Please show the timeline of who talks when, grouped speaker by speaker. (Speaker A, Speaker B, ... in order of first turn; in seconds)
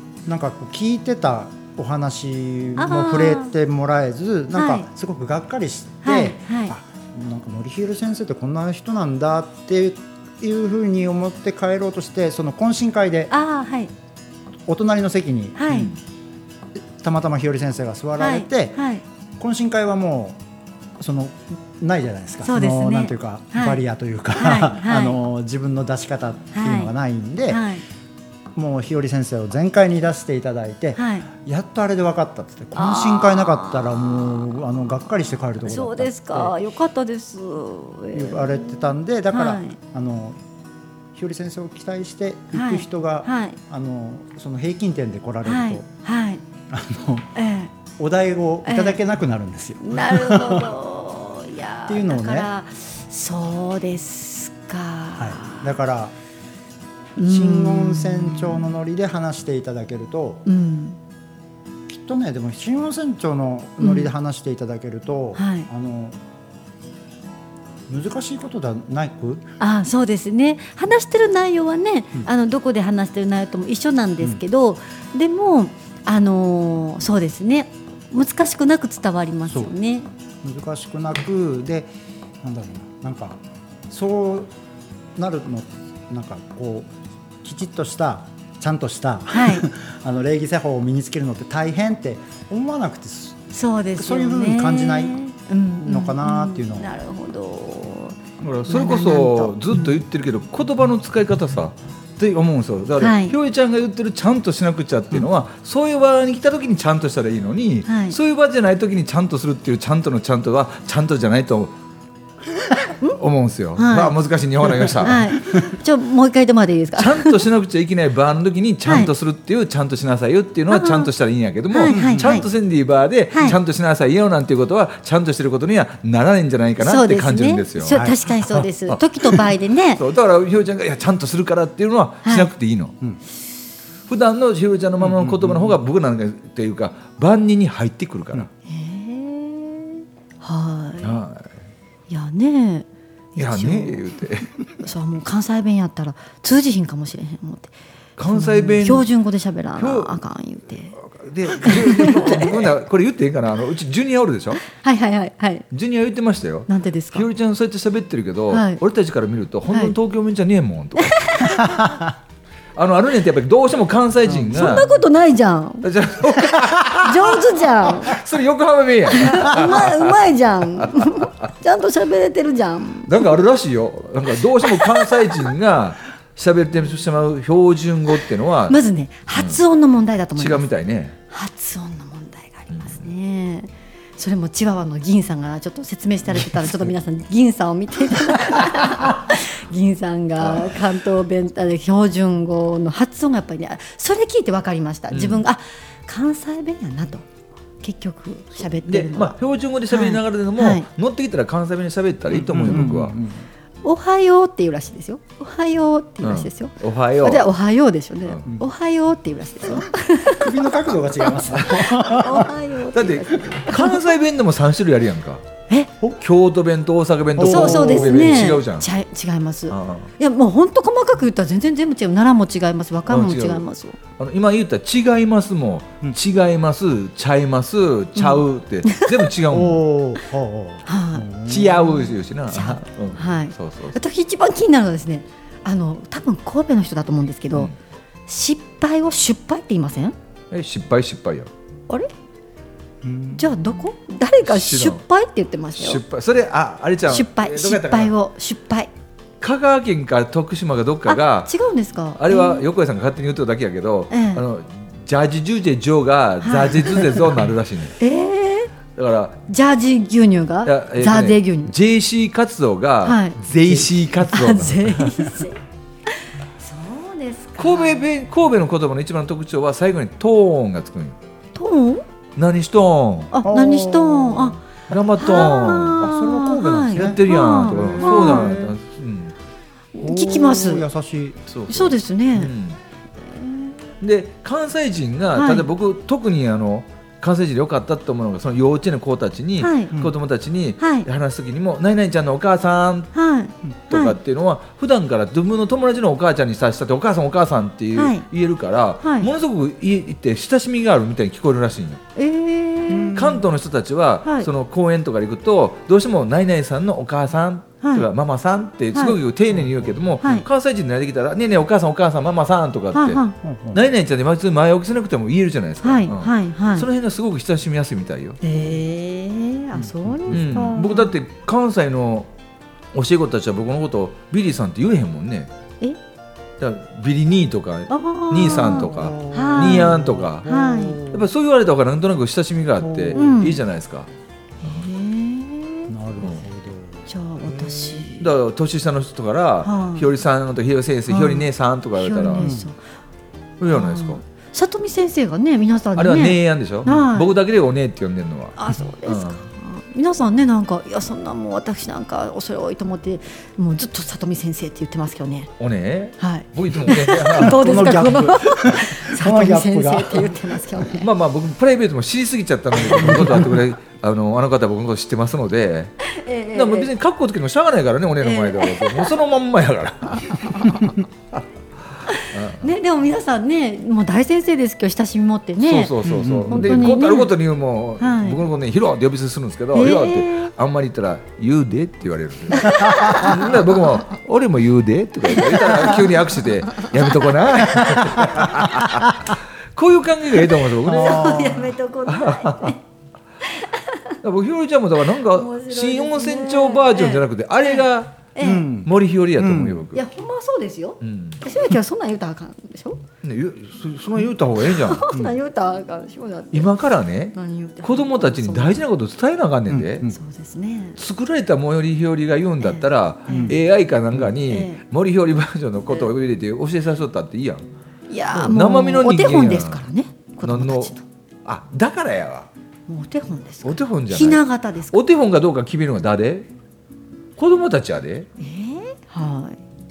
Speaker A: 0.2-13.3, 14.7-15.9, 16.9-18.8, 19.4-20.4, 21.0-27.6, 28.5-36.5, 38.1-40.4, 41.1-45.9, 46.7-47.3, 48.0-50.7, 51.9-52.5, 55.2-56.1, 57.2-60.4, 61.9-66.2, 67.9-69.4, 80.4-84.5, 85.2-86.9, 87.4-93.4, 94.0-95.2, 95.8-96.9, 121.9-122.4, 127.9-128.2, 135.0-135.8, 202.3-203.4, 209.8-212.5, 217.3-218.5, 229.5-231.8, 243.0-243.5, 273.4-274.6, 275.9-278.7, 280.0-281.4, 302.9-303.4, 309.6-310.4, 313.4-313.8, 319.7-320.6, 328.7-331.2, 332.8-333.3, 335.9-338.0, 342.4-342.7, 357.4-360.6, 362.9-363.4, 376.0-376.9, 390.8-391.6, 398.4-399.8, 409.7-410.1, 413.3-413.6
Speaker B: 2.8-3.5, 4.5-4.9, 6.0-6.7, 13.3-13.9, 15.6-15.9, 18.2-19.0, 22.4-23.8, 24.3-25.2, 26.5-26.9, 27.5-27.8, 30.9-31.3, 32.7-34.4, 35.6-39.8, 42.5-43.6, 45.4-46.4, 47.3-47.7, 48.6-49.0, 49.8-55.7, 57.2-58.6, 60.5-61.0, 63.8-64.1, 65.3-65.7, 69.6-80.1, 89.3-89.7, 93.5-100.0, 103.0-103.3, 107.9-108.2, 113.8-114.1, 115.0-117.4, 120.7-121.1, 121.7-122.5, 123.3-123.6, 126.8-130.0, 132.2-132.5, 138.7-141.2, 142.1-144.0, 144.8-147.7, 148.3-151.0, 151.6-152.7, 154.6-155.6, 156.7-157.3, 158.5-158.8, 159.7-159.9, 161.0-161.9, 164.5-165.9, 166.8-168.2, 169.1-173.3, 174.6-175.2, 178.7-180.6, 181.3-197.2, 197.8-199.3, 199.9-200.9, 203.8-214.1, 217.4-224.0, 228.2-229.1, 230.8-231.3, 232.0-237.7, 238.3-240.2, 243.3-246.0, 247.1-248.9, 251.1-252.6, 254.1-254.4, 256.4-257.2, 258.0-258.7, 259.5-261.7, 263.0-263.4, 264.3-268.0, 271.5-272.0, 273.3-274.6, 275.2-278.6, 279.9-280.8, 281.7-282.5, 283.3-283.8, 285.3-285.7, 289.6-289.9, 290.8-291.1, 293.1-294.1, 297.9-298.2, 299.0-299.3, 302.1-303.2, 307.8-308.1, 312.9-313.4, 315.8-316.9, 318.4-321.1, 327.9-331.0, 333.1-333.6, 334.6-335.9, 337.1-338.3, 339.6-340.1, 341.1-341.5, 342.0-342.8, 343.7-347.3, 348.6-355.5, 356.2-361.1, 366.0-366.9, 368.2-369.1, 370.2-370.9, 372.1-377.3, 378.0-378.4, 379.7-380.5, 382.5-383.6, 385.3-386.0, 390.8-392.8, 393.4-394.1, 395.3-398.7, 399.9-403.0, 404.6-406.7, 407.3-408.8, 410.1-411.0, 412.6-413.6, 414.4-414.8, 418.1-421.0, 422.9-425.0, 428.4-429.6
Speaker C: 98.4-111.7, 113.2-115.3, 117.0-128.1, 128.9-129.4, 130.0-132.9, 134.1-138.5, 141.0-141.6, 143.4-144.5, 148.2-149.1, 149.8-150.2, 150.9-154.6, 155.7-161.8, 162.8-164.9, 165.8-170.2, 170.8-171.2, 173.1-178.8, 179.3-179.6, 180.3-181.2, 182.7-183.0, 190.4-190.7, 195.1-195.4, 198.8-203.2, 206.2-207.5, 211.5-211.9, 212.9-215.4, 216.2-218.9, 219.7-220.1, 223.1-223.6, 224.2-229.8, 231.4-233.9, 240.5-241.5, 244.4-245.0, 245.8-248.1, 249.4-251.5, 252.2-257.9, 258.9-259.4, 260.6-265.3, 267.6-271.2, 272.4-273.3, 274.9-276.1, 276.8-279.3, 281.5-282.8, 284.0-293.1, 293.9-302.0, 303.1-318.4, 320.3-322.3, 322.9-325.5, 326.6-330.5, 331.0-334.1, 338.2-342.5, 343.6-344.2, 345.9-349.4, 355.6-357.6, 360.9-366.0, 366.5-371.4, 372.3-372.7, 375.6-392.8, 394.2-398.3, 398.8-400.0, 401.0-401.4, 403.2-405.1, 406.5-410.1, 411.0-417.6, 418.3-419.8, 420.4-420.9, 421.4-422.5, 423.6-426.5, 427.4-428.3